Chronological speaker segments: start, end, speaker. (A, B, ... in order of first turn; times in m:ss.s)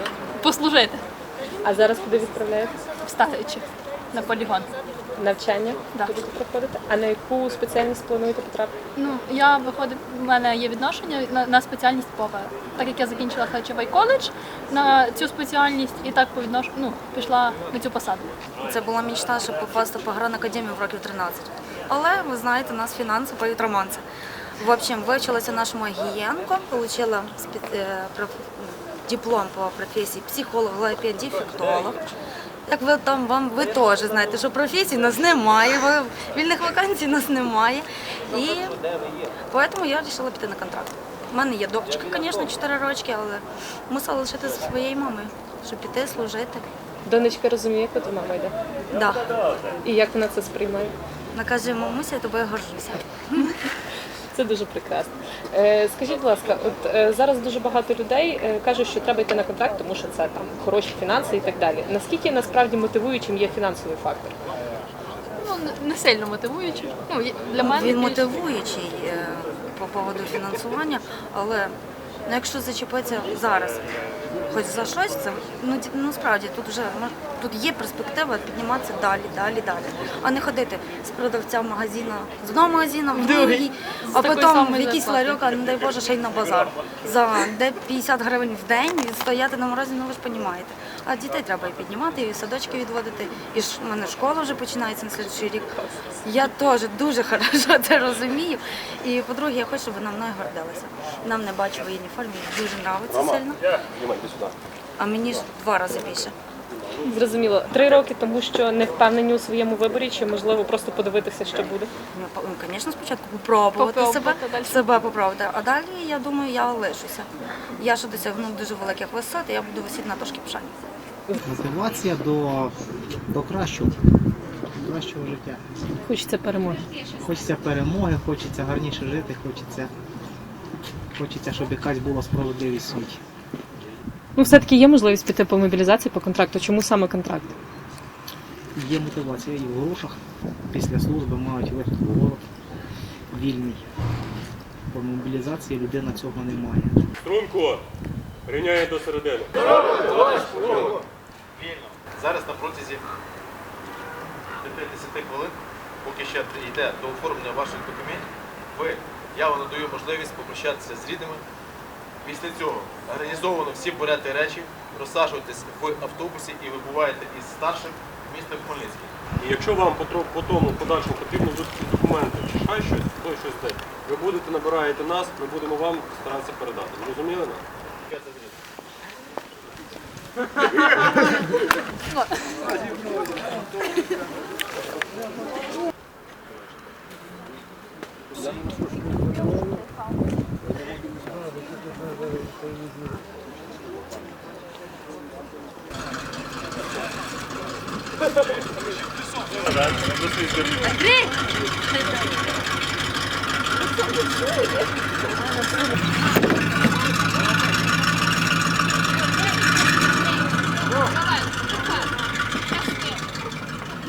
0:00.4-0:01.0 A
0:01.6-0:02.8 B
0:03.0-0:04.7 A
0:05.2-0:08.8 B
0:09.0-0:18.3 A
0:18.6-0:24.0 C
0:24.6-0:32.0 C
0:32.7-0:38.8 C
0:39.5-0:46.7 C
0:47.0-0:48.5 B
0:48.9-0:49.3 C
0:49.8-0:50.9 B
0:51.3-0:53.5 C
0:54.3-1:04.4 B
1:05.4-1:08.4 A
1:07.5-1:13.9 C
1:14.5-1:43.6 C
1:23.1-1:25.4 A
1:43.1-1:44.5 D
1:45.0-1:46.3 C
1:47.1-1:51.9 B
1:52.1-2:00.7 C
1:53.8-1:54.8 A
2:01.4-2:02.8 E
2:03.3-2:04.0 E
2:04.7-2:05.6 E
2:06.0-2:06.9 B
2:07.2-2:09.9 E
2:11.1-2:13.2 E
2:14.4-2:17.5 B
2:18.7-2:20.2 E
2:20.7-2:22.4 E
2:23.3-2:23.8 E
2:24.9-2:27.0 E
2:27.2-2:27.8 D
2:28.5-2:30.8 D
2:30.3-2:31.0 F
2:31.6-2:33.0 F
2:34.6-2:41.4 F
2:42.2-2:49.1 F
2:49.4-2:57.6 D
2:58.1-2:58.5 F
3:19.8-3:20.8 D